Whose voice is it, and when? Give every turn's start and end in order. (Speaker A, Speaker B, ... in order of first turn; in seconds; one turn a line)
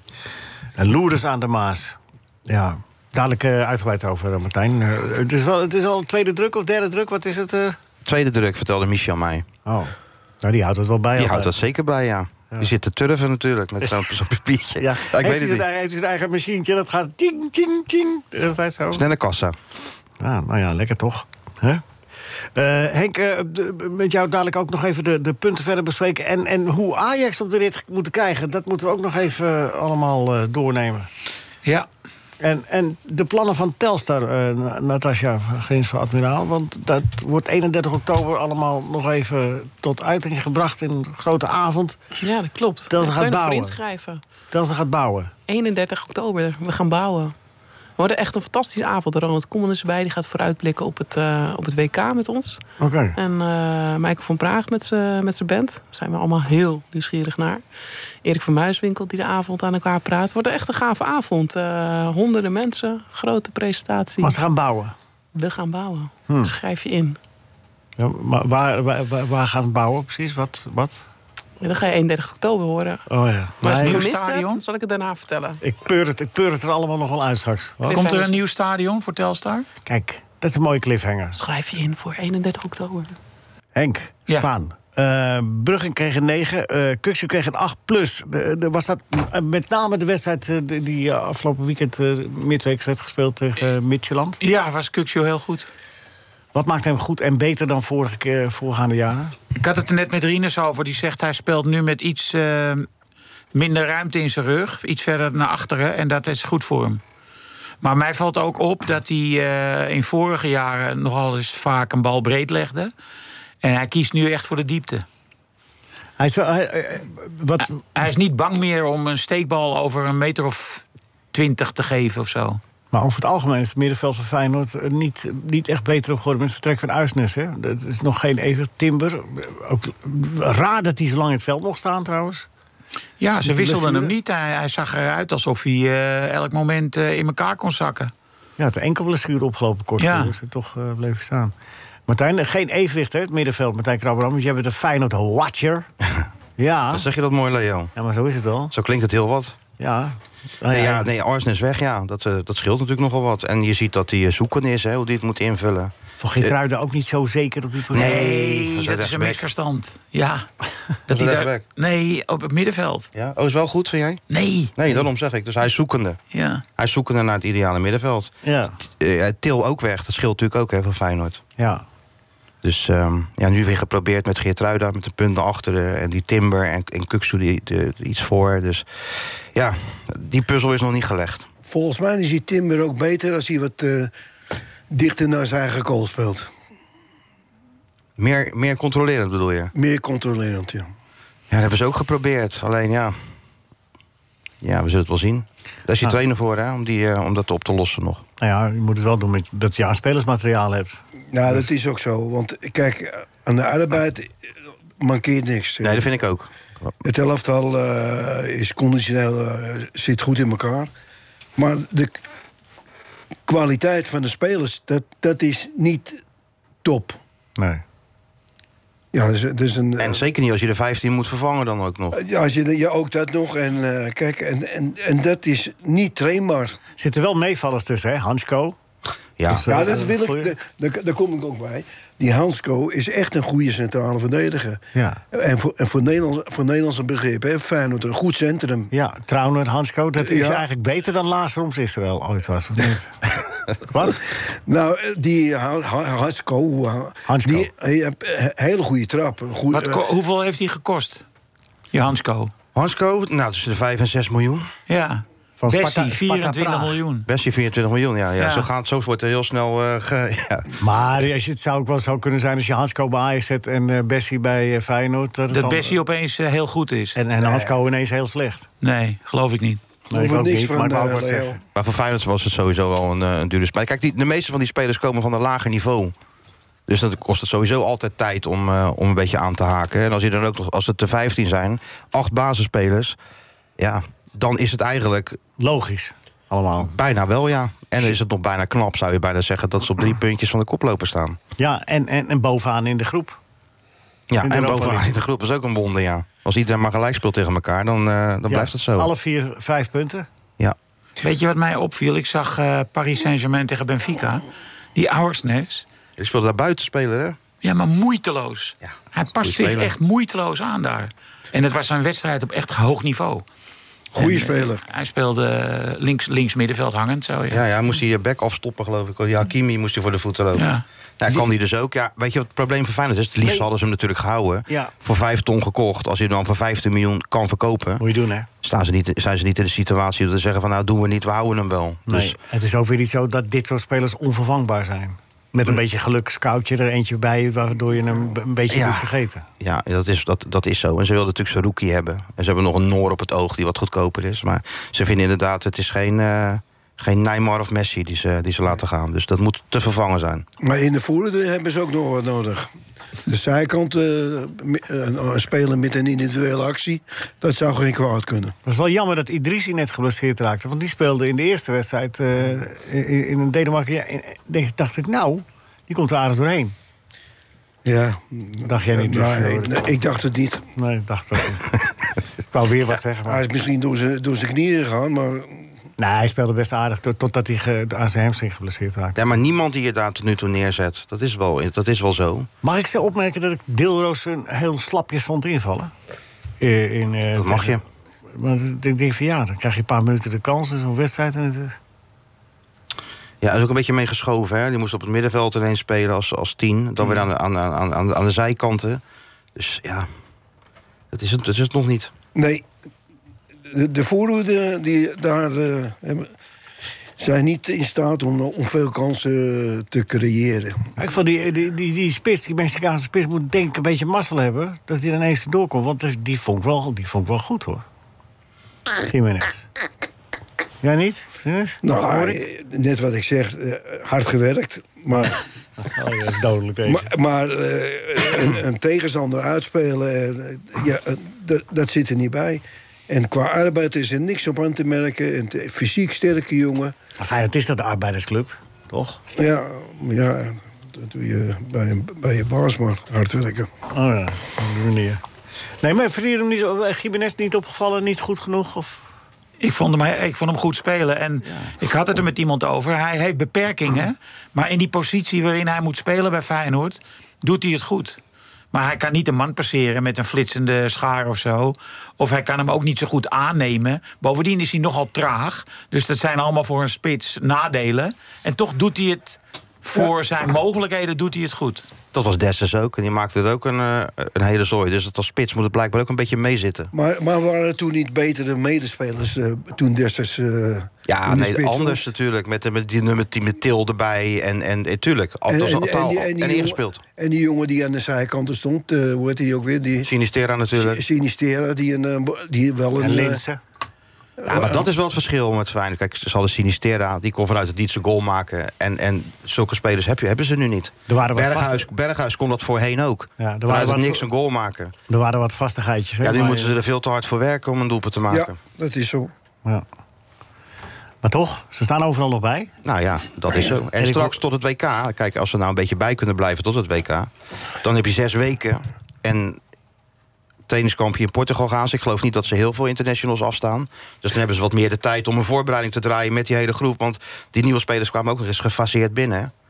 Speaker A: 0.8-7.8
Speaker B: 8.0-9.4
Speaker A: 9.6-11.6
Speaker B: 11.2-15.6
Speaker A: 14.8-19.1
Speaker B: 18.9-19.6
Speaker A: 20.2-21.8
Speaker A: 22.5-31.1
Speaker A: 32.4-42.0
Speaker C: 42.2-44.2
Speaker A: 42.9-43.8
Speaker A: 44.5-45.3
Speaker C: 45.5-47.3
Speaker C: 48.0-52.6
Speaker A: 52.8-53.2
Speaker C: 53.1-57.6
Speaker C: 58.2-64.4
Speaker A: 64.2-64.9
Speaker C: 65.3-67.2
Speaker A: 66.3-66.5
Speaker A: 68.0-71.0
Speaker C: 71.6-73.0
Speaker A: 73.1-74.0
Speaker C: 73.6-75.6
Speaker D: 73.6-74.6
Speaker A: 75.6-78.0
Speaker C: 77.8-78.3
Speaker D: 77.9-79.7
Speaker A: 79.8-81.4
Speaker C: 81.3-83.2
Speaker A: 83.7-94.4
Speaker D: 94.4-95.7
Speaker A: 96.5-99.3
Speaker D: 99.5-102.9
Speaker D: 103.5-107.0
Speaker D: 107.8-112.9
Speaker D: 113.6-115.0
Speaker A: 116.2-117.8
Speaker D: 117.6-122.6
Speaker A: 122.9-132.4
Speaker D: 133.2-138.1
Speaker A: 133.4-134.1
Speaker A: 138.6-141.5
Speaker D: 140.0-140.3
Speaker A: 142.1-145.9
Speaker A: 146.6-147.1
Speaker B: 146.9-147.9
Speaker A: 147.9-148.7
Speaker B: 148.7-149.6
Speaker A: 149.8-151.1
Speaker B: 150.7-156.5
Speaker A: 156.2-158.7
Speaker B: 157.9-159.4
Speaker D: 157.9-160.4
Speaker D: 161.1-163.1
Speaker B: 161.1-161.6
Speaker B: 163.1-164.2
Speaker D: 164.3-164.8
Speaker B: 164.8-166.2
Speaker D: 166.3-166.6
Speaker B: 166.8-168.3
Speaker A: 168.4-168.8
Speaker B: 169.0-171.4
Speaker A: 171.6-171.8
Speaker B: 172.6-178.8
Speaker B: 179.5-181.5
Speaker E: 181.6-184.1
Speaker E: 184.9-186.5
Speaker B: 188.2-189.7
Speaker E: 189.7-190.9
Speaker B: 191.5-193.2
Speaker B: 194.6-198.2
Speaker A: 198.4-201.0
Speaker E: 201.3-204.4
Speaker E: 205.0-206.1
Speaker B: 205.8-206.9
Speaker E: 207.0-210.9
Speaker E: 211.6-212.2
Speaker E: 213.5-216.2
Speaker E: 216.8-217.2
Speaker A: 217.6-217.8
Speaker E: 219.1-220.2
Speaker B: 220.0-222.1
Speaker E: 222.1-226.8
Speaker A: 227.0-228.8
Speaker B: 229.4-229.7
Speaker A: 229.5-230.5
Speaker E: 229.6-238.9
Speaker A: 234.9-235.2
Speaker A: 238.9-243.2
Speaker E: 240.2-240.6
Speaker A: 243.9-244.2
Speaker E: 244.7-250.1
Speaker A: 247.2-247.7
Speaker D: 249.7-251.2
Speaker D: 251.9-252.5
Speaker B: 252.7-254.7
Speaker D: 254.9-257.3
Speaker A: 255.6-257.0
Speaker B: 257.3-260.6
Speaker D: 258.4-258.7
Speaker A: 260.8-266.0
Speaker D: 265.5-267.1
Speaker A: 267.1-268.7
Speaker E: 267.4-267.7
Speaker D: 268.8-269.8
Speaker A: 270.1-271.6
Speaker E: 270.1-271.6
Speaker B: 271.7-276.1
Speaker B: 276.9-283.1
Speaker B: 283.8-285.4
Speaker A: 285.6-286.9
Speaker B: 286.8-291.4
Speaker A: 291.6-293.4
Speaker B: 294.3-299.1
Speaker A: 294.4-295.1
Speaker A: 298.5-300.3
Speaker D: 301.2-305.8
Speaker B: 306.2-307.4
Speaker D: 307.6-313.4
Speaker B: 308.8-309.9
Speaker E: 314.1-314.8
Speaker D: 314.1-317.6
Speaker B: 317.5-320.6
Speaker D: 320.5-320.8
Speaker B: 321.2-328.0
Speaker A: 323.4-323.7
Speaker A: 324.7-324.9
Speaker A: 328.0-328.5
Speaker B: 328.6-332.4
Speaker A: 332.1-339.4
Speaker B: 338.7-350.4
Speaker E: 350.6-352.7
Speaker E: 353.3-358.5
Speaker A: 358.6-366.8
Speaker E: 367.8-370.6
Speaker A: 368.6-369.9
Speaker A: 370.8-371.9
Speaker A: 372.5-373.4
Speaker E: 373.2-375.7
Speaker A: 376.0-379.2
Speaker B: 379.1-382.5
Speaker A: 382.6-385.9
Speaker A: 386.6-387.8
Speaker B: 387.4-387.8
Speaker A: 388.3-391.8
Speaker B: 393.4-399.0
Speaker B: 399.6-400.1
Speaker B: 401.1-402.1
Speaker E: 402.3-402.6
Speaker E: 403.7-406.3
Speaker E: 407.2-410.8
Speaker A: 411.0-417.8
Speaker A: 419.0-419.7
Speaker A: 420.8-422.4
Speaker E: 421.8-425.4
Speaker A: 425.1-427.1
Speaker E: 426.9-436.9
Speaker A: 437.2-439.2
Speaker E: 439.4-443.7
Speaker A: 443.9-445.2
Speaker A: 445.8-449.0
Speaker D: 449.6-458.2
Speaker D: 458.7-471.9
Speaker B: 472.1-476.9
Speaker E: 476.9-482.0
Speaker B: 481.1-487.0
Speaker E: 485.5-490.1
Speaker B: 490.0-491.0
Speaker E: 490.7-493.4
Speaker A: 493.0-493.6
Speaker E: 494.4-494.9
Speaker B: 494.5-504.9
Speaker A: 501.1-501.9
Speaker A: 503.4-504.2
Speaker A: 505.1-506.8
Speaker B: 506.2-508.6
Speaker E: 508.3-509.3
Speaker A: 511.2-512.7
Speaker B: 512.8-517.3
Speaker A: 513.9-514.4
Speaker B: 517.8-519.6
Speaker B: 520.7-529.5